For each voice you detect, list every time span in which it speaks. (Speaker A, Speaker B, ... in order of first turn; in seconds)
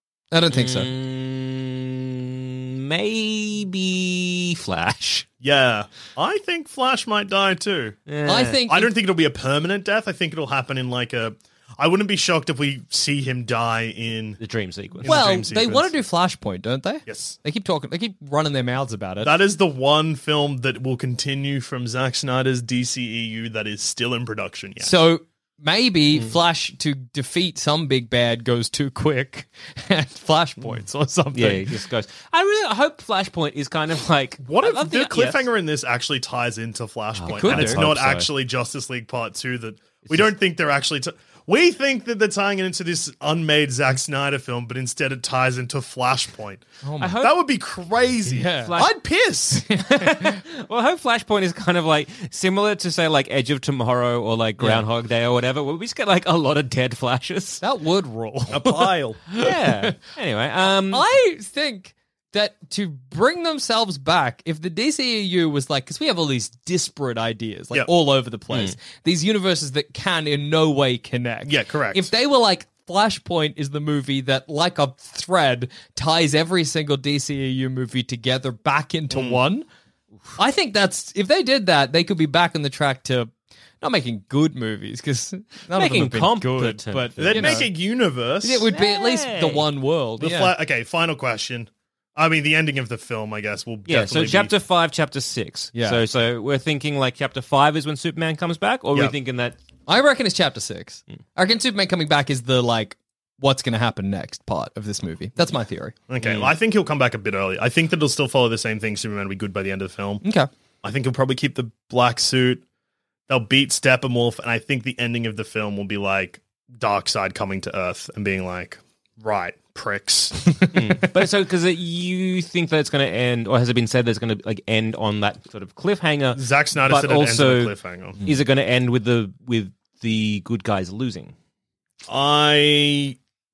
Speaker A: 0.3-0.9, 8.2-8.9, 15.0-19.3, 24.8-31.7, 37.3-37.8, 46.8-47.2, 48.3-48.7, 49.5-50.4, 57.6-60.0, 60.9-79.7, 80.4-83.3, 83.8-87.7, 88.4-90.5, 95.7-96.0, 99.9-105.9, 110.2-110.5
Speaker B: 0.5-5.3, 8.1-8.6, 14.4-15.2, 31.3-35.5, 37.2-38.3, 47.0-47.4, 48.5-49.0, 49.8-57.6, 59.4-61.0, 85.7-87.6, 88.7-89.7, 93.9-99.5, 106.2-106.5, 120.7-131.3
Speaker C: 5.4-8.0, 8.7-14.4, 15.0-15.9, 17.1-17.4, 19.2-24.9, 34.4-46.6, 47.2-49.6, 58.5-59.2, 71.4-72.1, 79.1-79.4, 87.2-88.7, 90.2-94.5, 106.1-110.2, 110.8-112.6, 113.3-120.7, 126.3-128.2, 132.1-133.2